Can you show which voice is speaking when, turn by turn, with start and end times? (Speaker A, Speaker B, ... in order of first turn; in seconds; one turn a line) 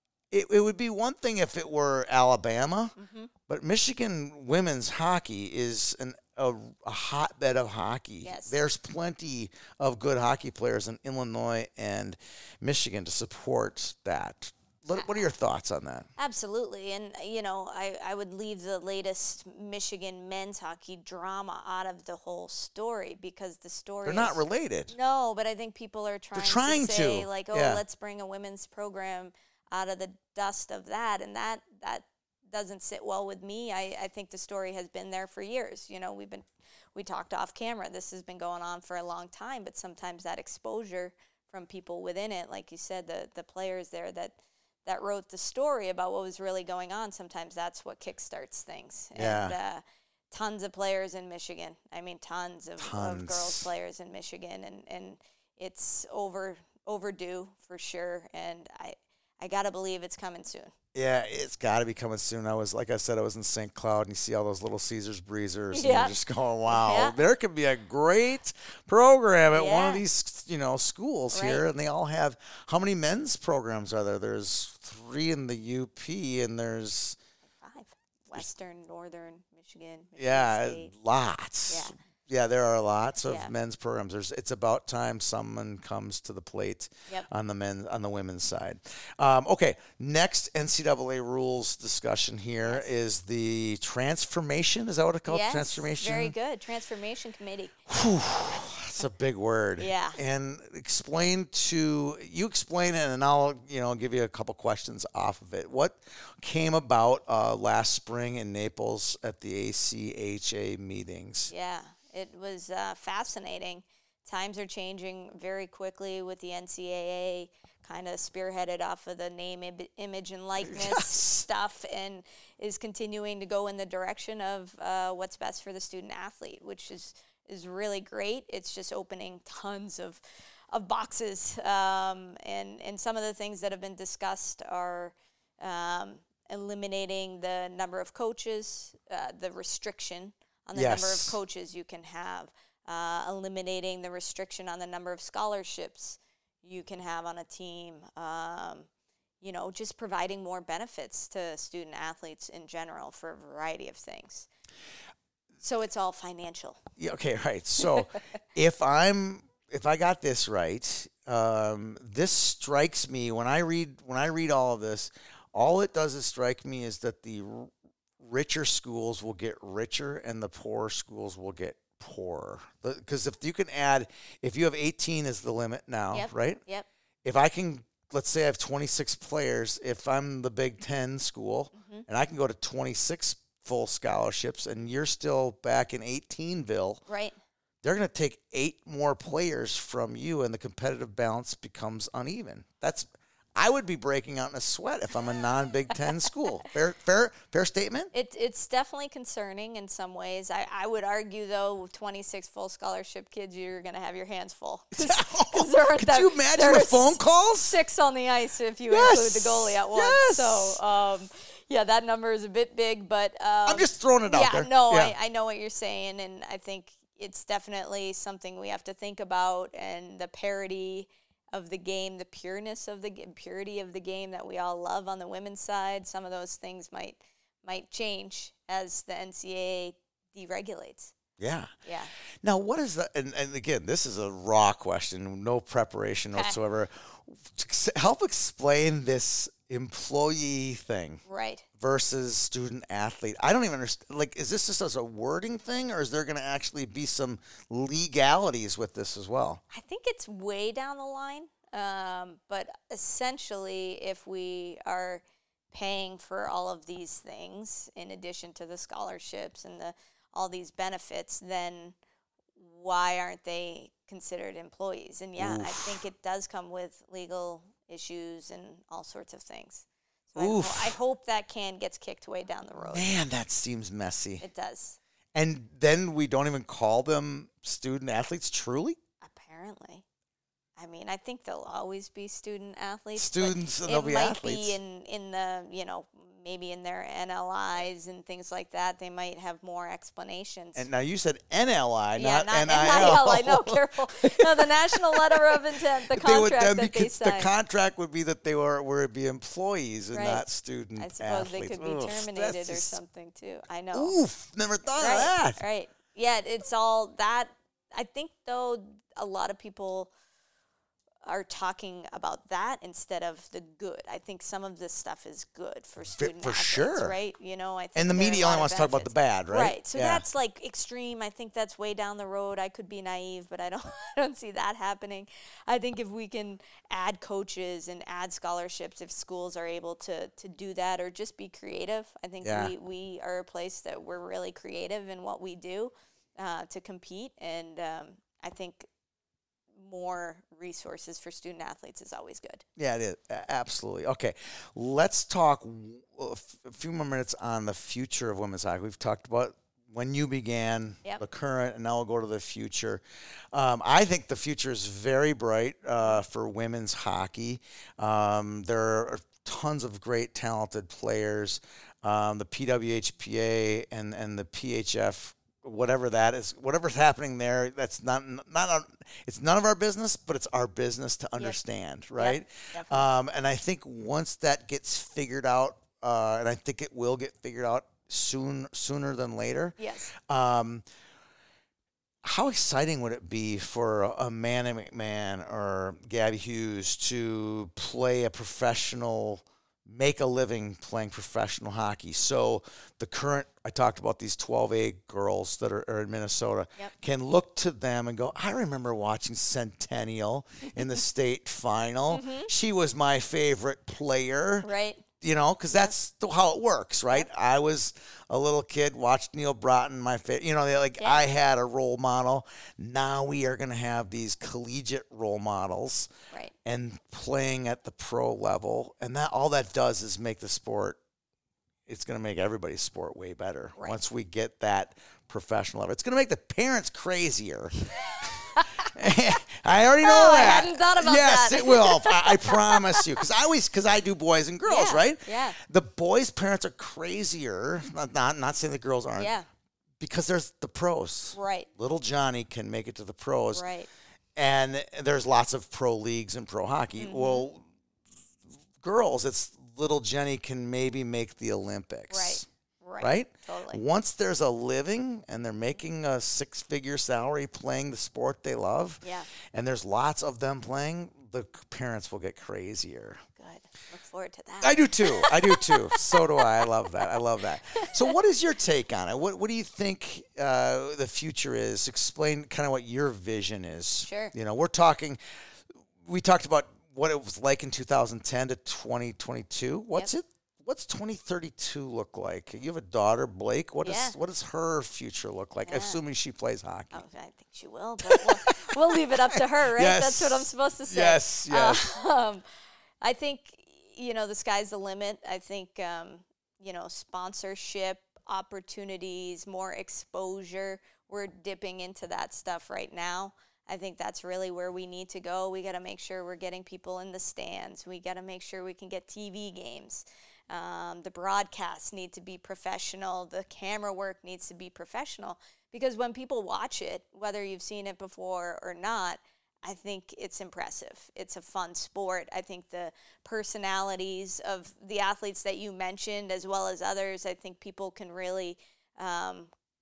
Speaker A: 0.3-2.9
Speaker B: 3.0-3.3
Speaker A: 3.5-16.1
Speaker B: 8.2-8.6
Speaker B: 16.2-60.7
Speaker A: 24.0-24.9
Speaker A: 26.3-27.8
Speaker A: 49.1-49.6
Speaker A: 52.8-53.7
Speaker A: 60.9-77.2
Speaker B: 65.7-66.1
Speaker B: 66.7-67.1
Speaker B: 69.5-70.0
Speaker B: 71.3-71.6
Speaker B: 77.6-80.9
Speaker A: 80.2-96.3
Speaker B: 81.7-81.9
Speaker B: 83.2-83.5
Speaker B: 95.3-97.8
Speaker A: 97.9-111.5
Speaker B: 99.8-100.2
Speaker B: 111.5-148.9
Speaker A: 120.6-121.4
Speaker A: 140.7-141.3
Speaker B: 149.4-154.5
Speaker B: 155.6-156.8
Speaker A: 157.0-176.6
Speaker B: 176.1-176.9
Speaker A: 177.2-187.0
Speaker B: 181.7-182.0
Speaker B: 187.1-187.4
Speaker A: 187.8-198.1
Speaker B: 198.1-231.1
Speaker A: 204.9-207.8
Speaker A: 208.9-210.8
Speaker A: 213.7-215.1
Speaker A: 231.4-231.7
Speaker B: 231.8-232.1
Speaker A: 232.4-241.2
Speaker B: 241.2-241.6
Speaker A: 241.8-249.6
Speaker B: 249.7-261.9
Speaker B: 262.6-273.1
Speaker A: 265.4-266.0
Speaker A: 270.4-270.9
Speaker A: 272.9-274.4
Speaker B: 274.4-275.0
Speaker A: 275.3-279.0
Speaker B: 279.2-280.0
Speaker B: 280.8-290.8
Speaker A: 283.1-284.8
Speaker A: 290.7-303.0
Speaker B: 292.2-297.5
Speaker B: 300.1-304.1
Speaker A: 303.9-305.6
Speaker B: 304.9-310.1
Speaker B: 311.2-338.9
Speaker A: 316.0-317.1
Speaker A: 317.9-320.2
Speaker A: 332.4-332.7
Speaker B: 339.7-342.6
Speaker A: 342.8-353.0
Speaker A: 353.5-380.9
Speaker B: 372.1-373.1
Speaker B: 379.8-380.1
Speaker A: 382.2-404.7
Speaker B: 402.1-402.5
Speaker B: 404.6-405.1
Speaker A: 405.2-416.1
Speaker B: 411.0-411.2
Speaker A: 416.6-421.0
Speaker A: 421.9-439.3
Speaker B: 428.0-428.9
Speaker B: 430.0-433.0
Speaker B: 434.6-435.6
Speaker B: 439.2-439.5
Speaker A: 440.0-443.6
Speaker B: 441.3-441.7
Speaker B: 443.5-443.9
Speaker A: 444.4-447.7
Speaker B: 447.0-447.4
Speaker A: 448.8-452.5
Speaker B: 452.1-453.8
Speaker A: 453.0-463.2
Speaker B: 459.0-459.3
Speaker B: 463.4-466.6
Speaker A: 464.6-475.2
Speaker B: 467.7-468.1
Speaker B: 474.0-474.3
Speaker A: 476.0-487.0
Speaker B: 483.8-484.1
Speaker B: 485.6-486.0
Speaker B: 486.9-492.4
Speaker A: 488.0-491.9
Speaker B: 493.0-529.5